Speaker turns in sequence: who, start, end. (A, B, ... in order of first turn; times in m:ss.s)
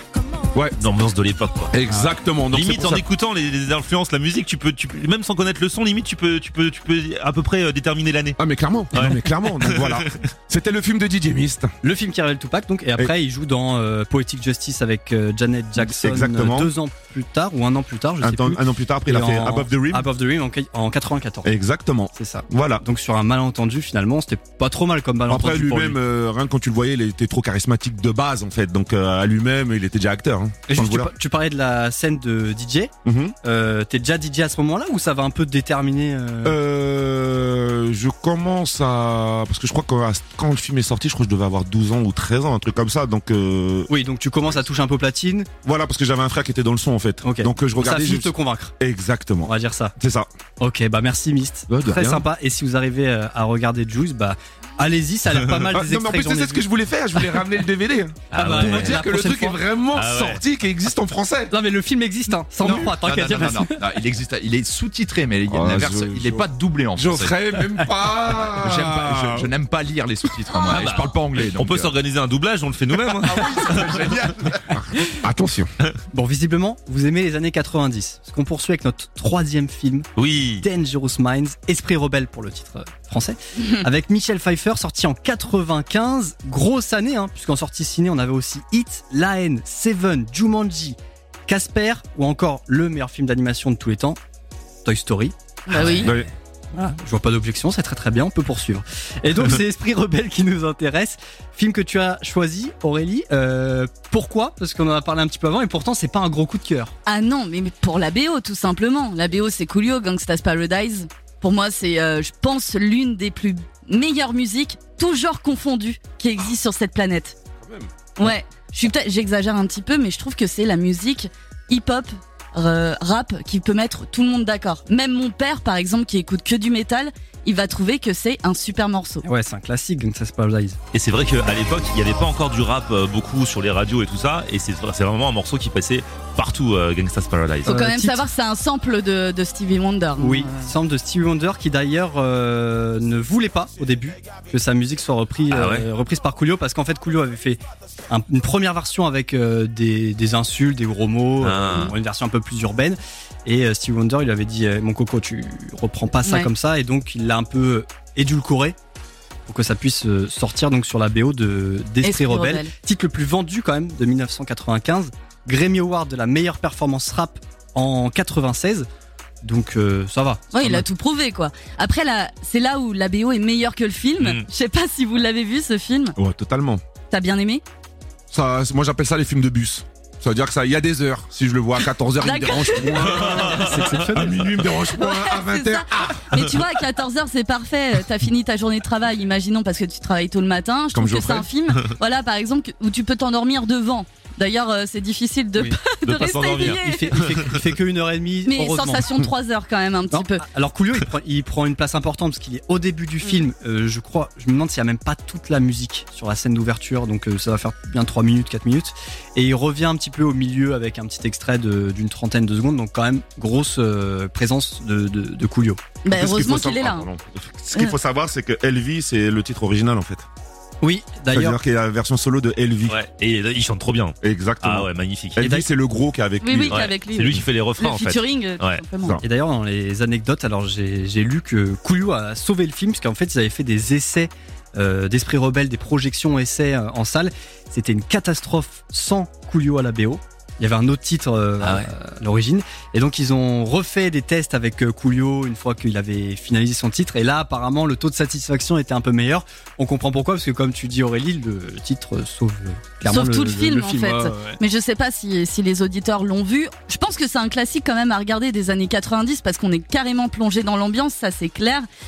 0:00.8-0:01.8 A
0:01.7-0:03.0 B
0:02.5-0:08.4 A
0:08.4-0:11.7 B
0:08.9-0:10.2 A
0:11.8-0:21.5 C
0:15.8-0:16.7 B
0:18.2-0:20.1 B
0:21.4-0:22.8 B
0:22.1-0:26.0 C
0:25.3-0:31.1 B
0:30.7-0:36.6 C
0:33.0-0:33.4 B
0:36.4-0:43.9 B
0:43.9-0:45.5 C
0:45.6-0:50.3 B
0:47.2-0:48.7 C
0:49.4-0:49.9 C
0:50.6-0:56.6 C
0:51.7-0:52.2 B
0:55.7-1:01.5 B
0:58.3-0:59.6 C
0:58.3-0:59.0 A
0:59.9-1:00.4 A
1:01.5-1:03.8 C
1:02.6-1:02.9 B
1:02.6-1:07.4 D
1:05.5-1:09.5 B
1:08.4-1:11.9 D
1:10.7-1:14.2 A
1:13.1-1:15.7 B
1:16.1-1:31.0 C
1:20.2-1:20.6 A
1:31.5-1:34.2 C
1:34.8-1:36.2 C
1:35.7-1:36.1 E
1:36.0-1:36.3 B
1:36.7-1:46.9 C
1:47.1-1:57.4 E
1:57.6-1:57.9 B
1:58.2-2:09.2 E
2:09.2-2:10.8 C
2:10.9-2:17.8 A
2:17.6-2:20.7 E
2:17.7-2:18.3 C
2:20.2-2:38.8 C
2:25.5-2:25.9 A
2:31.4-2:31.9 A
2:36.2-2:36.5 E
2:39.5-2:48.9 C
2:42.0-2:42.7 E
2:49.4-2:50.8 C
2:50.5-2:56.2 E
2:54.2-2:54.5 A
2:56.2-2:56.8 B
2:57.1-2:57.6 E
2:58.3-3:06.7 B
3:02.2-3:03.7 E
3:03.5-3:04.5 C
3:04.9-3:17.2 E
3:10.9-3:11.5 B
3:16.0-3:17.6 A
3:16.6-3:19.1 C
3:18.5-3:20.4 E
3:20.1-3:35.8 C
3:36.0-3:37.1 E
3:36.1-3:40.2 B
3:40.8-3:41.6 C
3:41.3-3:43.0 B
3:42.9-3:45.4 A
3:44.2-3:46.9 B
3:45.4-3:45.7 C
3:46.4-3:49.2 E
3:46.7-3:48.8 A
3:49.2-4:14.6 C
4:01.6-4:01.9 A
4:13.1-4:21.9 E